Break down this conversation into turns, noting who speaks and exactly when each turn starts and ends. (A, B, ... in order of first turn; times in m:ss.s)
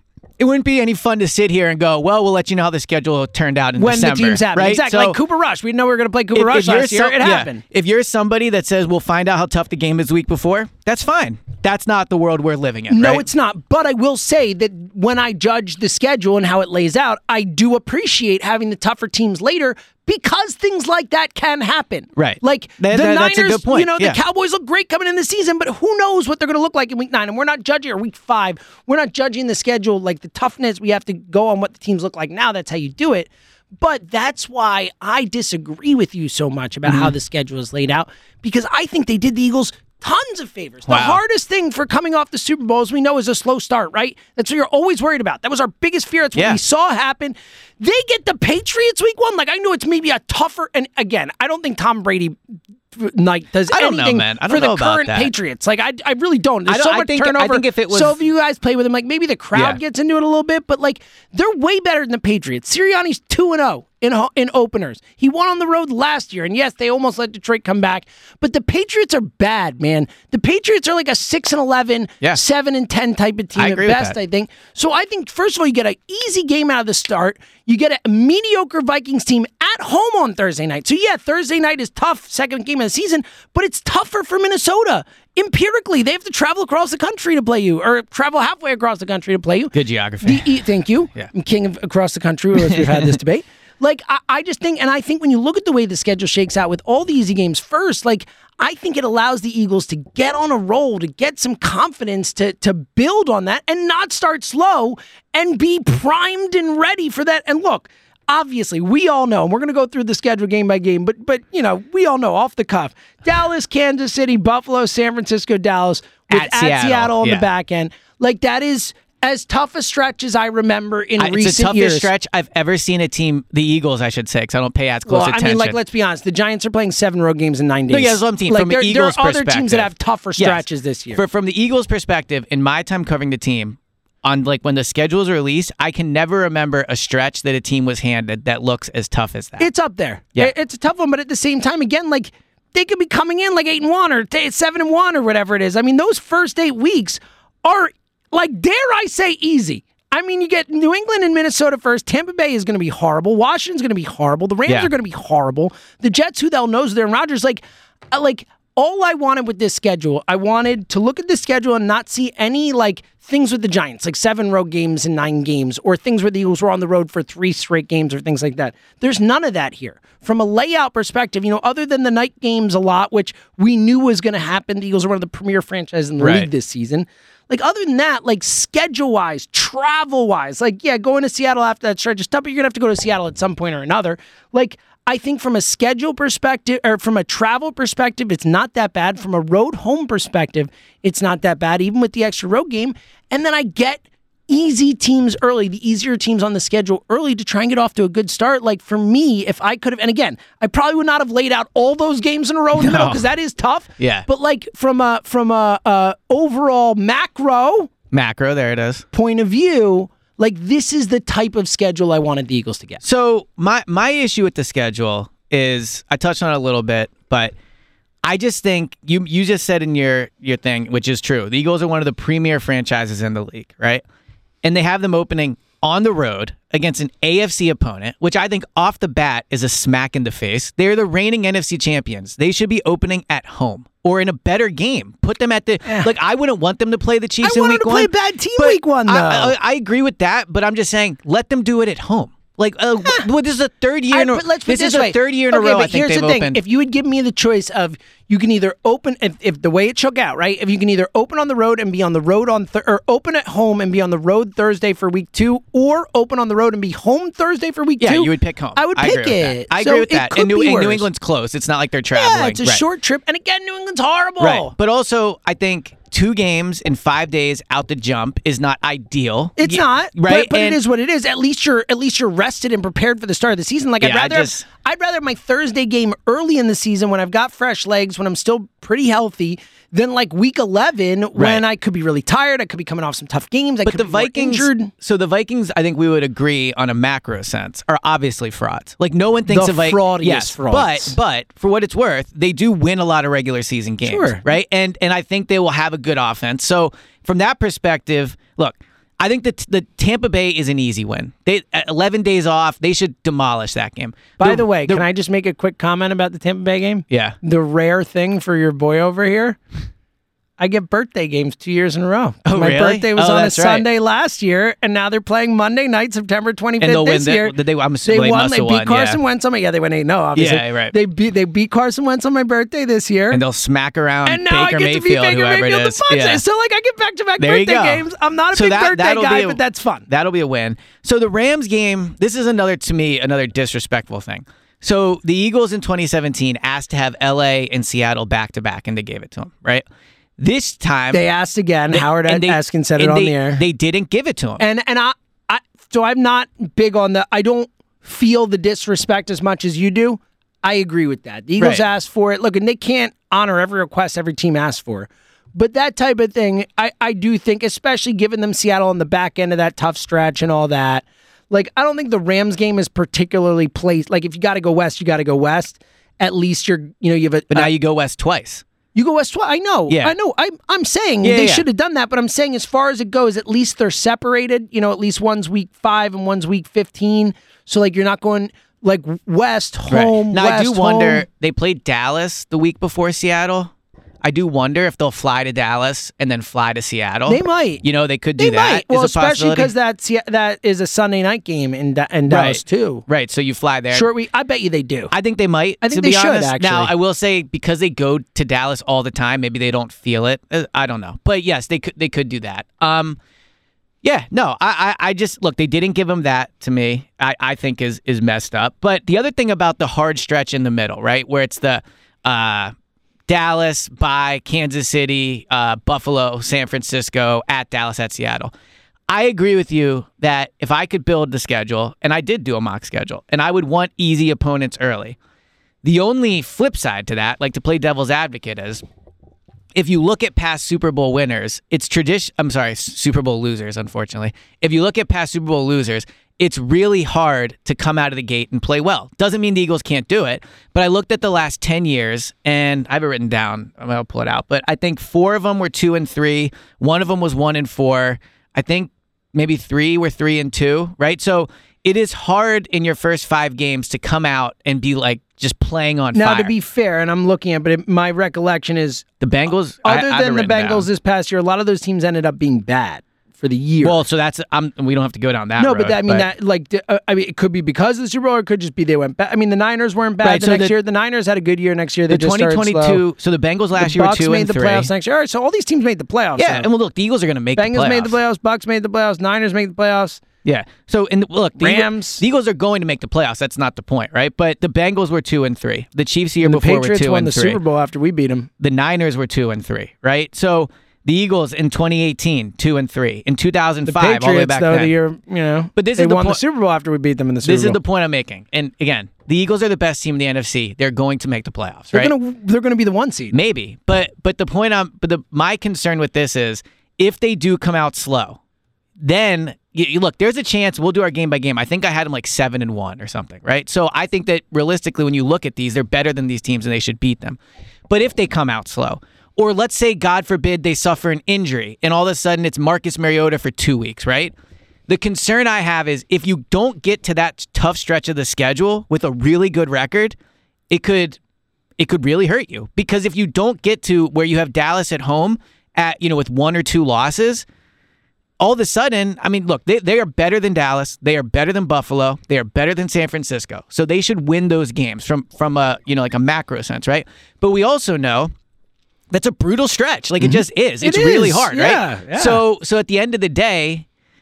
0:00.4-0:05.2 A
0:03.8-0:07.6 B
0:06.3-0:13.2 A
0:12.9-0:52.4 B
0:22.2-0:24.2 A
0:36.8-0:37.1 A
0:40.9-0:41.2 A
0:52.9-2:02.1 B
0:53.7-0:55.3 A
0:56.7-0:58.2 A
0:59.5-0:59.8 A
1:13.6-1:14.2 A
1:29.7-1:30.5 A
1:32.6-1:33.2 A
1:56.3-1:57.5 A
2:01.2-2:05.8 A
2:05.1-2:11.2 B
2:07.9-2:19.7 A
2:19.6-3:27.9 B
2:56.2-2:56.5 A
3:22.8-3:23.2 A
3:24.0-3:24.2 A
3:28.1-3:29.0 A
3:29.1-3:33.0 B
3:33.0-3:37.5 A
3:38.2-3:44.0 A
3:44.6-4:06.6 A
3:57.4-3:59.5 B
4:04.1-4:21.0 B
4:18.0-4:22.8 A
4:22.1-4:24.7 B
4:24.4-4:30.8 A
4:29.6-4:44.9 B
4:34.0-4:34.6 A
4:41.4-4:41.6 A
4:43.8-5:05.0 A
4:49.5-4:51.2 B
4:54.0-4:54.4 B
5:04.4-5:09.6 B
5:07.1-5:07.4 A
5:10.6-5:23.4 B
5:12.4-5:13.8 A
5:16.8-5:19.2 A
5:20.3-5:20.9 A
5:23.3-5:26.4 A
5:24.2-5:30.0 B
5:27.4-5:39.8 A
5:40.4-5:41.2 A
5:41.1-5:43.6 B
5:41.9-5:44.6 A
5:44.6-6:07.7 B
5:51.6-5:51.8 A
6:07.5-6:08.6 A
6:08.9-6:21.2 B
6:09.9-6:10.1 A
6:11.2-6:11.6 A
6:19.9-6:23.7 A
6:24.2-6:29.7 A
6:27.3-6:27.8 B
6:28.4-6:33.0 B
6:32.3-6:34.1 A
6:33.9-6:35.1 B
6:35.1-6:43.2 A
6:35.8-6:36.9 B
6:44.0-6:52.7 A
6:53.3-6:58.5 A
6:59.1-7:05.2 A
7:05.8-7:08.8 A
7:09.7-7:36.5 A
7:36.1-7:39.1 B
7:39.2-7:40.9 A
7:39.8-7:44.0 B
7:43.8-7:46.3 A
7:45.6-7:53.0 B
7:50.2-7:50.7 A
7:52.1-7:54.9 A
7:53.8-7:56.7 B
7:56.4-7:58.1 A
7:57.6-8:00.2 B
8:00.4-8:07.6 A
8:01.6-8:02.2 B
8:06.4-8:08.5 B
8:08.6-8:14.9 A
8:13.9-8:17.8 B
8:15.8-8:16.4 A
8:17.4-8:22.1 A
8:21.9-8:23.4 B
8:23.3-8:28.4 A
8:29.0-8:37.4 A
8:37.9-8:44.3 A
8:44.9-8:50.2 A
8:50.7-8:51.2 A
8:51.8-8:57.4 A
8:58.4-9:08.3 A
9:09.1-9:13.8 A
9:10.2-9:12.4 B